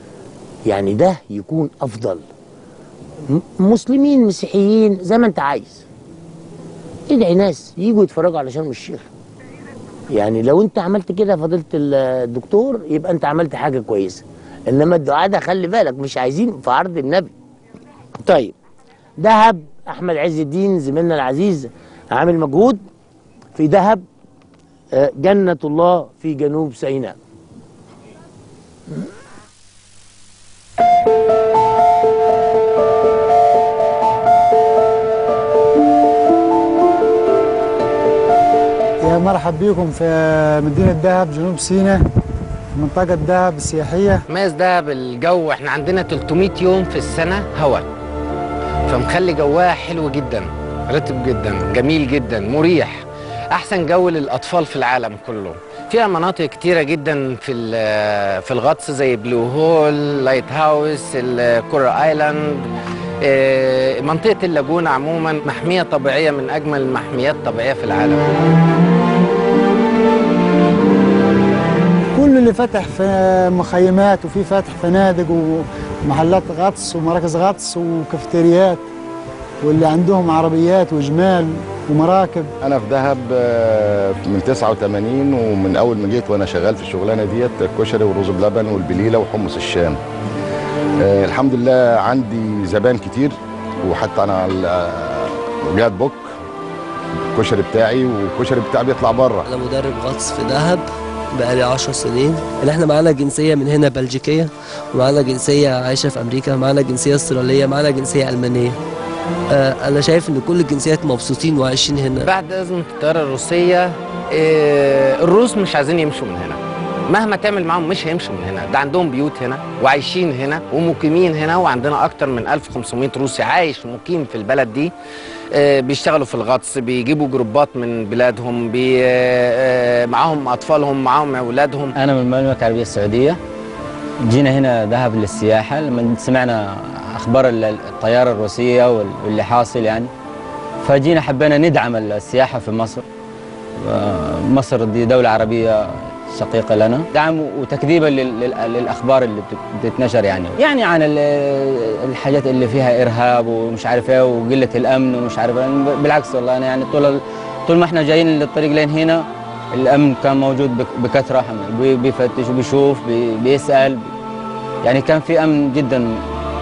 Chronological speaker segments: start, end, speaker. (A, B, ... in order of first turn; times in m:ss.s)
0:00.6-0:02.2 A
0:03.3-0:05.8 A
0:07.1-0:09.0 A
0:10.1-0:17.3 A
0:18.2-0:18.5 A
0:19.2-0:22.8 A
0:23.6-0:24.0 A
0:24.9-0:27.2 A
0:39.0-0:42.0 B
0:42.8-0:44.2 B
0:44.3-0:47.8 C
0:48.9-1:02.6 C
1:03.2-1:08.2 C
1:12.1-1:18.8 B
1:19.6-1:22.5 B
1:22.6-1:30.0 D
1:31.0-1:36.3 D
1:37.3-1:39.4 D
1:39.5-1:48.8 E
1:49.5-1:52.3 E
1:52.2-2:04.9 C
2:05.5-2:11.9 C
2:12.0-2:13.4 F
2:14.3-2:20.1 F
2:20.8-2:23.0 F
2:23.8-2:44.1 F
2:44.8-2:46.1 F